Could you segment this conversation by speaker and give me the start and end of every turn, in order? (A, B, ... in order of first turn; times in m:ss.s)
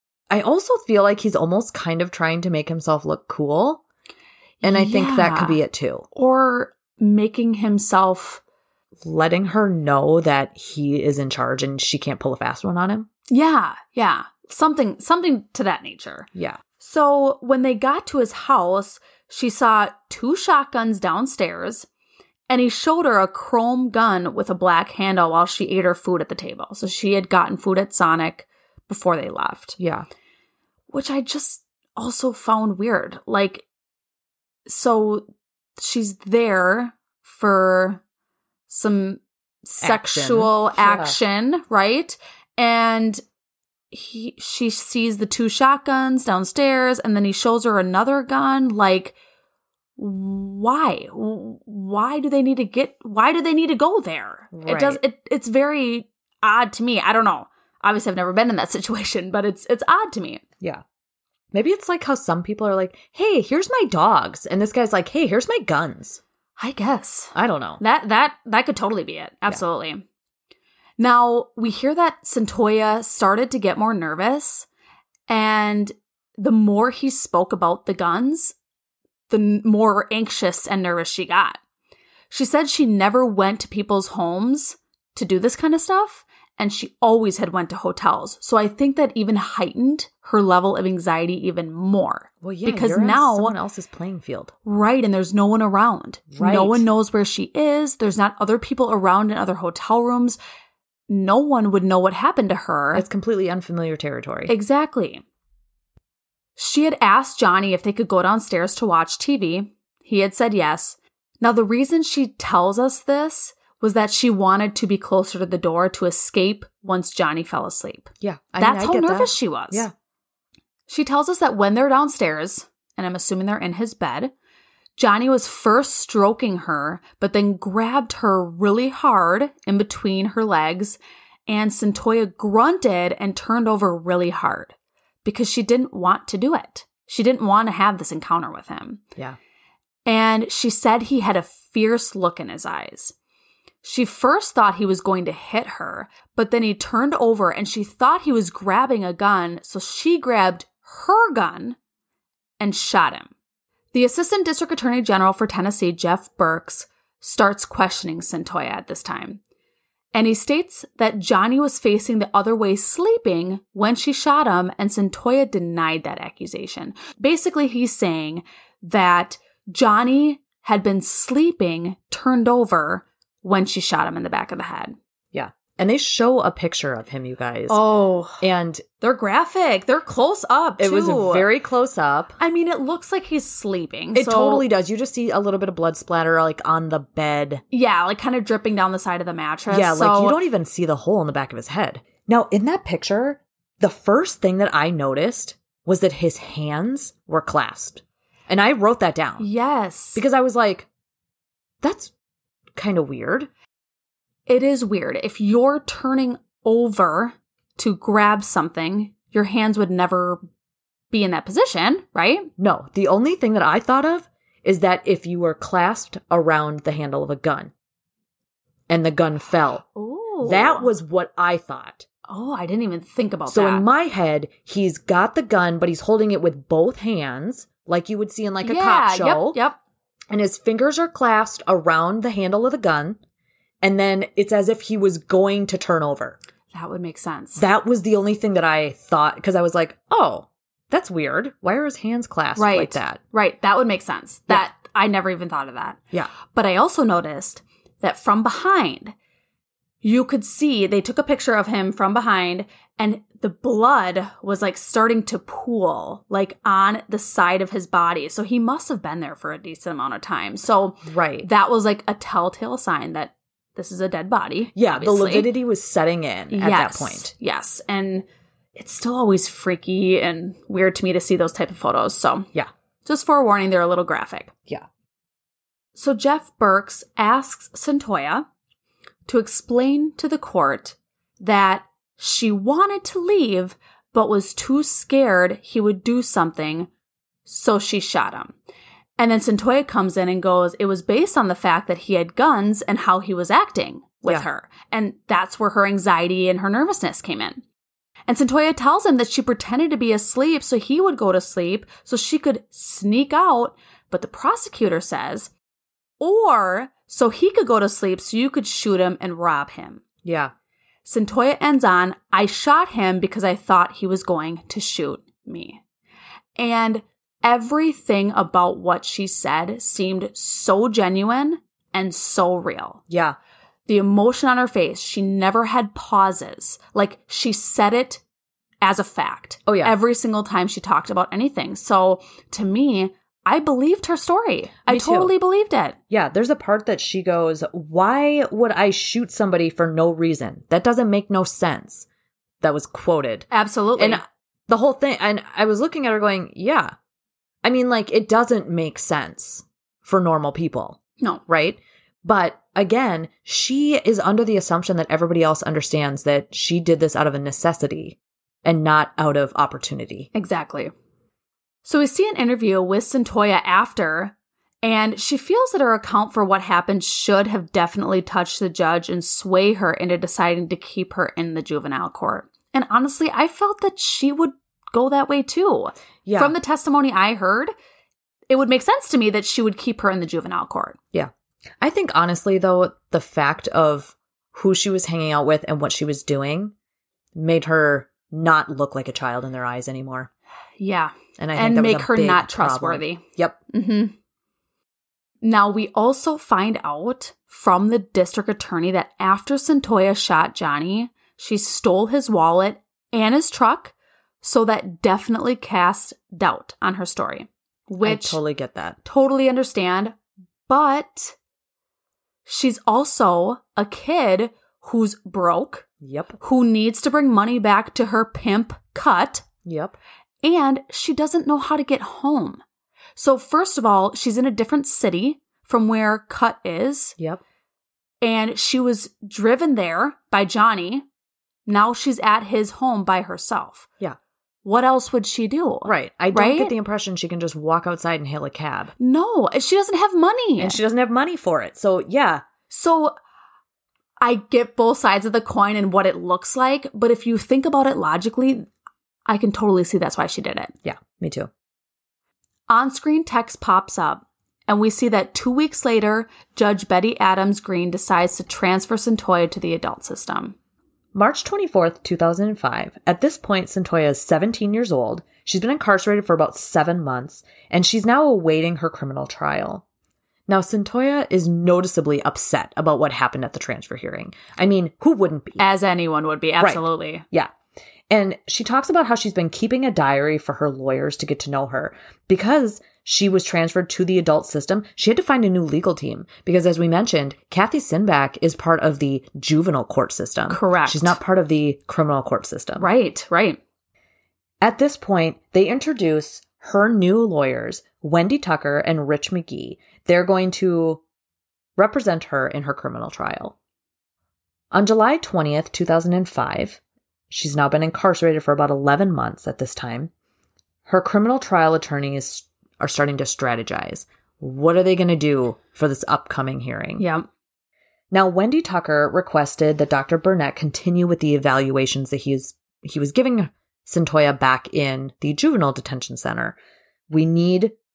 0:00.3-0:03.8 A
0:04.6-0:05.6 B
0:04.6-0:06.1 A
0:06.1-0:08.4 B
0:09.0-0:13.1 A
0:13.3-0:21.9 B
0:16.3-0:16.6 A
0:22.5-0:29.8 B
0:29.8-0:30.1 A
0:30.9-0:33.6 B
0:34.7-0:35.3 B
0:35.8-0:38.0 B
0:38.7-0:43.2 B
0:39.8-0:41.2 A
0:43.9-0:49.2 B
0:50.0-1:00.4 B
0:54.5-0:55.0 A
1:01.5-1:06.2 A
1:06.6-1:10.0 B
1:07.4-1:07.8 A
1:11.0-1:14.7 B
1:15.3-1:18.6 B
1:19.3-1:21.6 B
1:22.3-1:33.6 B
1:32.4-1:34.5 A
1:34.6-1:40.4 B
1:36.3-1:36.8 A
1:41.1-1:43.0 B
1:43.0-1:44.5 A
1:44.5-1:45.2 B
1:46.6-1:59.9 B
1:58.2-1:59.9 A
2:00.9-2:04.3 B
2:05.0-2:19.0 B
2:20.1-2:23.2 B
2:23.8-2:31.8 B
2:32.6-2:33.3 B
2:33.9-2:39.4 B
2:40.1-2:55.0 B
2:55.3-2:57.8 A
2:57.7-2:58.4 B
2:58.4-2:58.8 A
2:59.0-3:01.5 B
3:00.8-3:02.4 A
3:02.4-3:04.6 B
3:04.1-3:07.6 A
3:07.7-3:10.4 B
3:09.7-3:19.5 A
3:19.4-3:20.2 B
3:20.2-3:20.9 A
3:21.8-3:22.1 A
3:22.8-3:23.5 A
3:24.5-3:30.4 B
3:31.1-3:32.5 B
3:32.6-3:37.7 A
3:38.9-3:39.8 A
3:40.0-3:40.9 B
3:40.4-3:42.1 A
3:42.3-3:43.8 B
3:43.5-3:49.6 A
3:48.6-3:49.8 B
3:50.3-3:53.2 A
3:53.8-3:56.4 A
3:56.7-3:57.6 B
3:57.6-4:03.2 A
4:02.6-4:09.2 B
4:10.0-4:25.5 B
4:21.1-4:21.5 A
4:24.8-4:27.3 A
4:26.5-4:32.5 B
4:33.0-4:34.5 B
4:36.0-4:38.5 B
4:39.3-4:46.9 B
4:47.5-4:48.6 B
4:49.2-4:57.6 B
4:58.3-5:05.5 B
5:06.2-5:10.0 B
5:10.2-5:10.5 A
5:11.0-5:15.8 B
5:16.6-5:23.0 B
5:23.1-5:23.4 A
5:23.9-5:28.2 B
5:28.8-5:36.0 B
5:29.7-5:29.9 A
5:34.9-5:35.3 A
5:36.1-5:42.1 A
5:42.6-5:46.9 A
5:43.5-5:44.2 B
5:47.6-6:00.3 A
6:00.3-6:00.9 B
6:01.8-6:17.7 B
6:16.2-6:16.5 A
6:18.5-6:21.0 B
6:21.1-6:26.7 A
6:27.4-6:30.3 A
6:30.8-6:34.2 B
6:31.4-6:33.6 A
6:35.4-6:48.4 B
6:48.0-6:49.0 A
6:49.0-6:50.2 B
6:50.7-6:51.4 B
6:52.5-6:55.9 B
6:56.0-6:56.4 A
6:56.4-6:59.5 B
6:59.6-7:00.0 A
7:00.4-7:02.6 B
7:03.2-7:07.2 B
7:08.2-7:11.0 B
7:11.7-7:13.9 B
7:14.6-7:16.7 B
7:15.8-7:18.9 A
7:19.0-7:20.8 B
7:20.6-7:22.4 A
7:22.7-7:23.2 B
7:24.2-7:28.7 B
7:29.3-7:30.7 B
7:30.8-7:31.5 A
7:32.7-7:40.6 B
7:41.1-7:49.8 A
7:50.5-7:55.6 A
7:55.6-7:57.2 B
7:56.6-7:57.5 A
7:58.1-8:12.9 A
8:10.5-8:11.2 B
8:12.8-8:13.6 B
8:14.6-8:21.0 A
8:21.8-8:23.6 A
8:24.7-8:30.1 A
8:30.9-8:37.1 A
8:37.0-8:37.3 B
8:38.1-8:46.6 A
8:47.1-8:47.8 A